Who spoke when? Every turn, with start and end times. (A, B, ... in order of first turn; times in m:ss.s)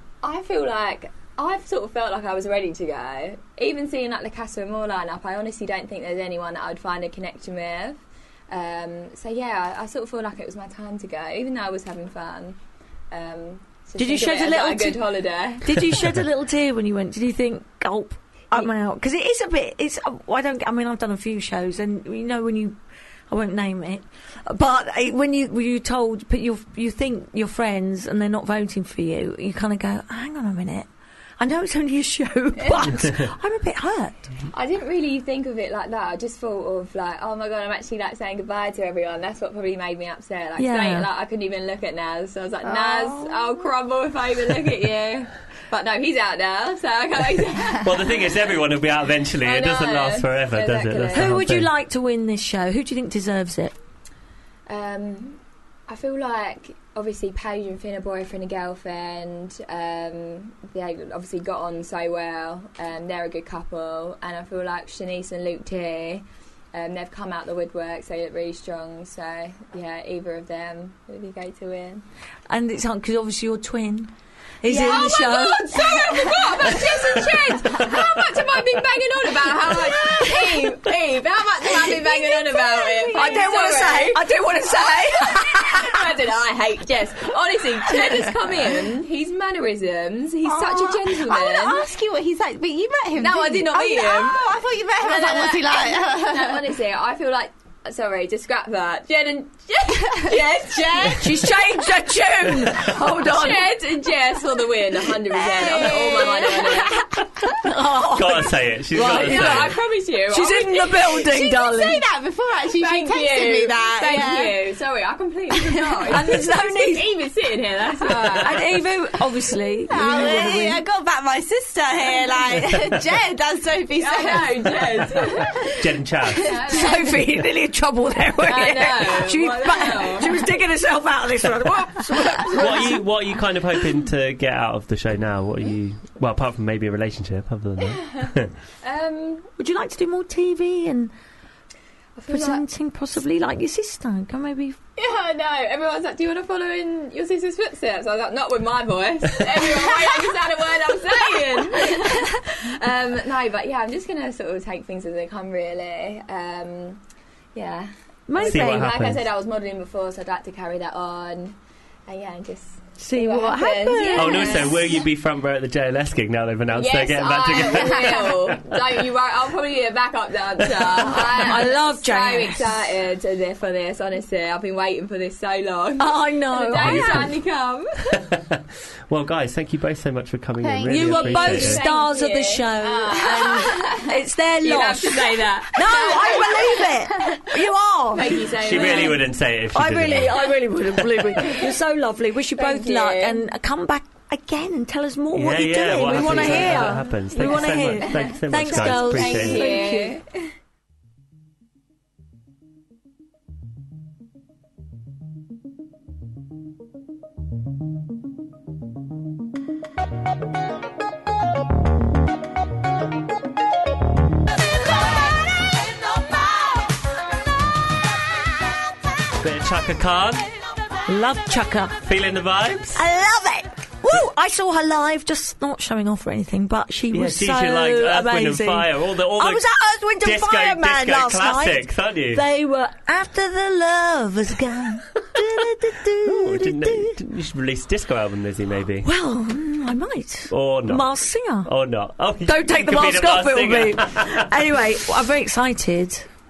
0:00.2-0:12.6 A
0:13.1-0:16.0 A
0:14.0-0:15.0 B
0:15.6-0:22.8 B
0:23.3-0:30.9 B
0:31.4-0:34.3 B
0:32.6-0:32.9 A
0:34.5-0:48.4 A
0:40.6-0:41.1 B
0:47.8-0:51.7 C
0:49.4-0:51.3 A
0:51.1-0:53.7 B
0:54.7-1:12.0 A
1:12.5-1:14.1 B
1:14.6-1:16.4 B
1:14.7-1:24.3 A
1:19.6-1:20.8 B
1:22.4-1:23.5 D
1:23.1-1:25.9 B
1:24.8-1:31.8 A
1:30.4-1:36.7 D
1:33.2-1:34.4 A
1:35.0-1:41.5 A
1:41.1-1:43.7 B
1:42.6-1:47.0 A
1:45.3-1:52.0 B
1:45.8-1:46.5 D
1:48.1-1:49.7 C
1:49.0-1:51.4 A
1:51.3-1:54.6 D
1:52.8-1:58.7 A
1:55.5-1:56.3 D
1:56.1-1:57.1 B
1:58.4-2:00.8 B
1:59.9-2:05.6 D
2:00.0-2:00.5 A
2:04.0-2:05.6 A
2:05.8-2:06.5 C
2:06.4-2:07.2 A
2:06.7-2:13.0 B
2:08.4-2:10.5 A
2:12.5-2:18.5 C
2:17.9-2:18.3 A
2:18.8-2:19.5 A
2:19.6-2:21.1 B
2:22.2-2:22.6 A
2:22.3-2:24.8 B
2:25.0-2:37.0 A
2:37.5-2:41.6 A
2:38.3-2:38.9 B
2:38.4-2:39.2 C
2:42.1-2:44.9 A
2:43.0-2:44.7 B
2:44.1-2:48.8 C
2:46.7-2:58.2 A
2:50.7-2:51.1 C
2:51.1-2:52.8 B
2:56.0-2:57.3 B
2:56.8-2:57.3 C
2:58.3-3:01.8 C
3:00.6-3:01.6 D
3:00.8-3:09.2 B
3:01.2-3:06.9 A
3:08.1-3:09.4 A
3:08.2-3:10.4 C
3:09.7-3:20.2 B
3:11.3-3:11.7 A
3:12.6-3:13.4 A
3:15.3-3:19.6 C
3:16.1-3:16.7 A
3:17.4-3:20.2 A
3:39.4-3:40.4 C
3:41.1-3:42.0 B
3:42.0-3:43.0 C
3:42.9-3:57.2 B
3:47.1-3:49.6 C
3:50.2-3:52.4 C
3:56.2-3:59.0 C
3:59.0-4:01.7 B
4:00.5-4:04.4 C
4:02.4-4:06.2 B